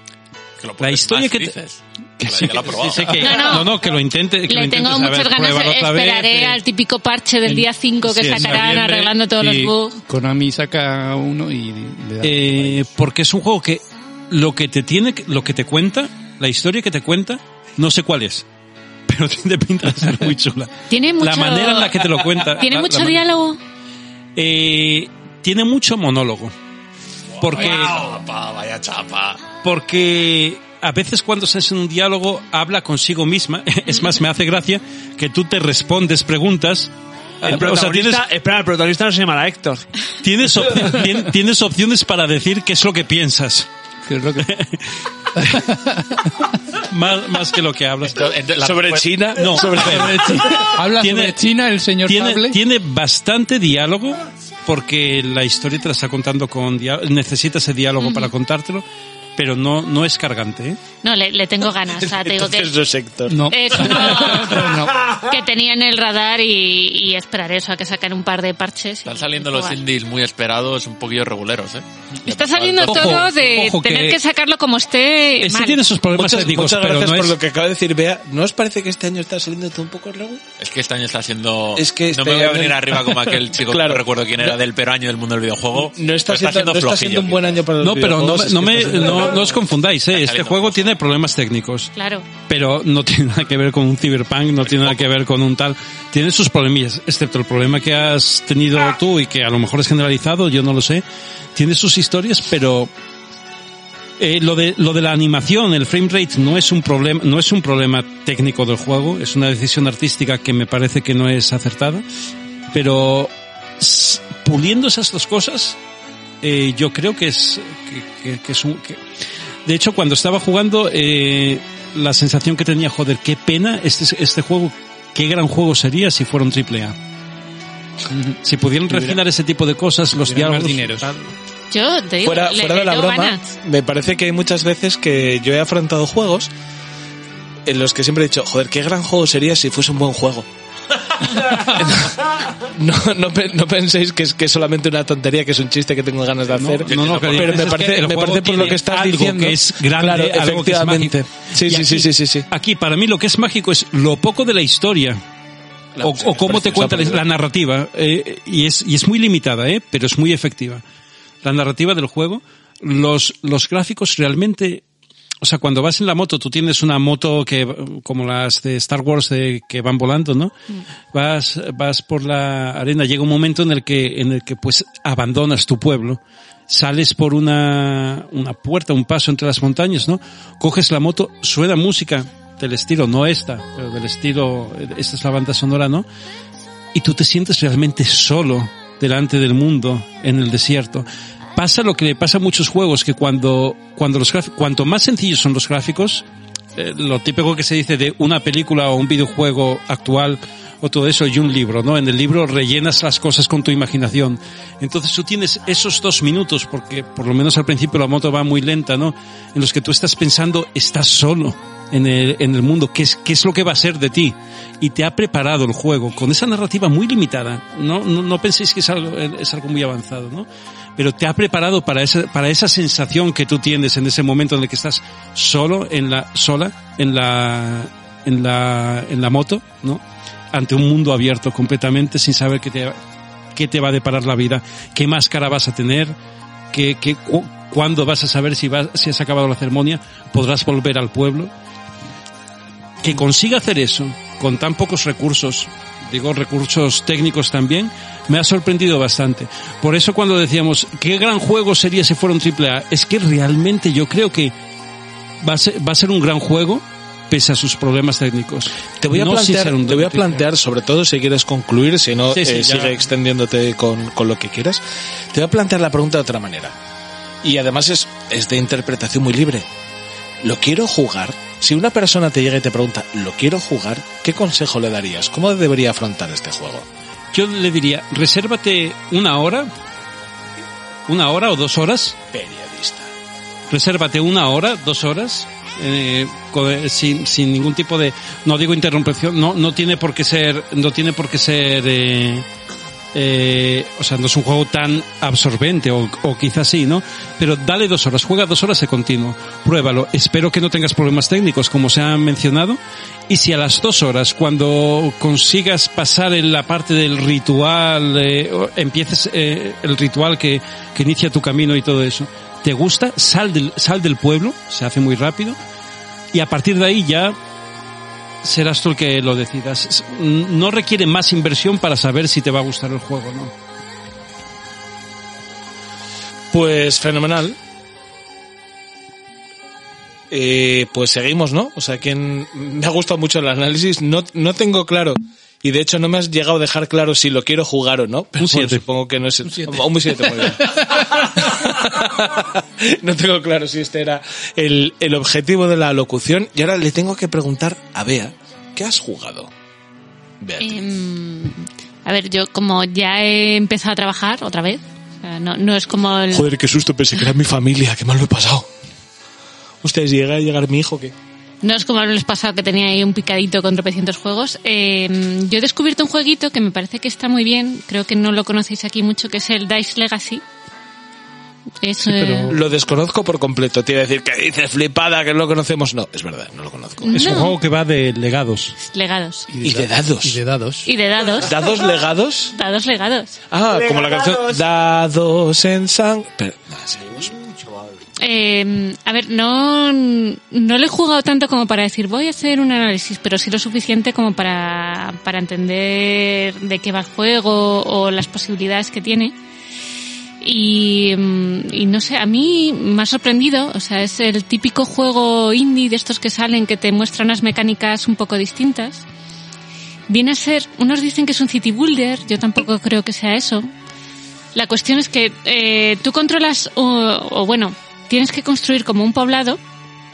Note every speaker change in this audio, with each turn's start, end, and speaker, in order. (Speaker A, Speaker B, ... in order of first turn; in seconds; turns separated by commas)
Speaker A: 0.6-3.5, Speaker B: 0.8-1.6, Speaker B: 2.2-6.6, Speaker C: 3.2-3.7, Speaker C: 4.5-10.0, Speaker B: 8.1-9.1, Speaker D: 8.3-12.9, Speaker B: 12.2-18.4, Speaker B: 19.1-23.2, Speaker C: 20.9-23.6, Speaker B: 24.4-26.5, Speaker B: 27.4-28.1, Speaker A: 27.4-29.4, Speaker B: 29.6-36.9, Speaker B: 37.4-38.2, Speaker E: 37.4-39.9, Speaker B: 40.2-43.7, Speaker D: 44.1-44.5, Speaker B: 44.4-45.8, Speaker D: 45.4-46.3, Speaker B: 46.8-48.3, Speaker A: 48.1-49.8, Speaker F: 48.6-50.7, Speaker B: 49.4-50.2, Speaker D: 49.8-52.6, Speaker B: 50.8-51.4, Speaker B: 52.0-58.8, Speaker C: 58.0-58.3, Speaker B: 59.4-60.8, Speaker C: 61.0-62.7, Speaker F: 62.1-63.4, Speaker D: 63.3-65.0, Speaker C: 63.5-69.8, Speaker A: 69.1-73.4, Speaker C: 72.2-75.8, Speaker B: 72.9-74.2, Speaker B: 75.4-77.4, Speaker F: 76.1-80.4, Speaker A: 80.6-87.7, Speaker F: 81.8-84.6, Speaker F: 85.8-89.5, Speaker B: 87.8-91.9, Speaker A: 90.1-91.0, Speaker C: 92.0-92.3, Speaker B: 92.5-101.0, Speaker B: 101.6-102.9, Speaker B: 104.2-112.0, Speaker B: 112.7-115.8, Speaker B: 116.4-119.0, Speaker B: 119.7-127.0, Speaker B: 128.4-131.2, Speaker D: 128.9-129.2, Speaker D: 130.2-131.1, Speaker C: 131.7-133.5, Speaker F: 132.2-136.5, Speaker F: 137.7-140.5, Speaker F: 141.3-152.5, Speaker B: 146.5-155.2, Speaker A: 146.9-147.7, Speaker F: 156.0-157.2, Speaker B: 156.0-160.8, Speaker B: 161.4-164.8, Speaker B: 165.4-170.5, Speaker B: 171.1-186.1, Speaker B: 186.9-196.2, Speaker B: 196.8-233.0, Speaker B: 233.6-236.2, Speaker B: 236.7-241.5, Speaker B: 243.0-254.5, Speaker B: 255.4-260.4, Speaker F: 259.0-264.8, Speaker B: 262.3-263.0, Speaker F: 265.3-266.8, Speaker F: 267.4-269.7, Speaker F: 270.4-276.9, Speaker B: 277.3-279.7, Speaker B: 281.1-282.2, Speaker F: 282.3-283.1, Speaker B: 283.7-292.5, Speaker B: 293.1-315.6, Speaker B: 316.3-317.4, Speaker B: 318.4-323.5, Speaker F: 326.5-327.6, Speaker F: 330.3-349.5, Speaker B: 338.4-338.8, Speaker F: 350.4-350.8, Speaker C: 350.6-356.5, Speaker F: 356.3-358.7, Speaker F: 359.8-361.1, Speaker C: 361.6-370.4, Speaker C: 371.8-372.6, Speaker B: 372.0-372.6, Speaker F: 372.5-377.3, Speaker C: 377.0-377.6, Speaker B: 377.1-378.8, Speaker C: 378.8-379.5, Speaker D: 379.5-380.9, Speaker F: 379.6-380.4, Speaker C: 380.9-381.6, Speaker F: 381.4-382.5, Speaker C: 382.5-383.4, Speaker F: 383.5-387.3, Speaker E: 383.8-384.6, Speaker C: 388.2-399.3, Speaker C: 400.4-409.1, Speaker C: 410.1-413.7, Speaker C: 414.6-419.6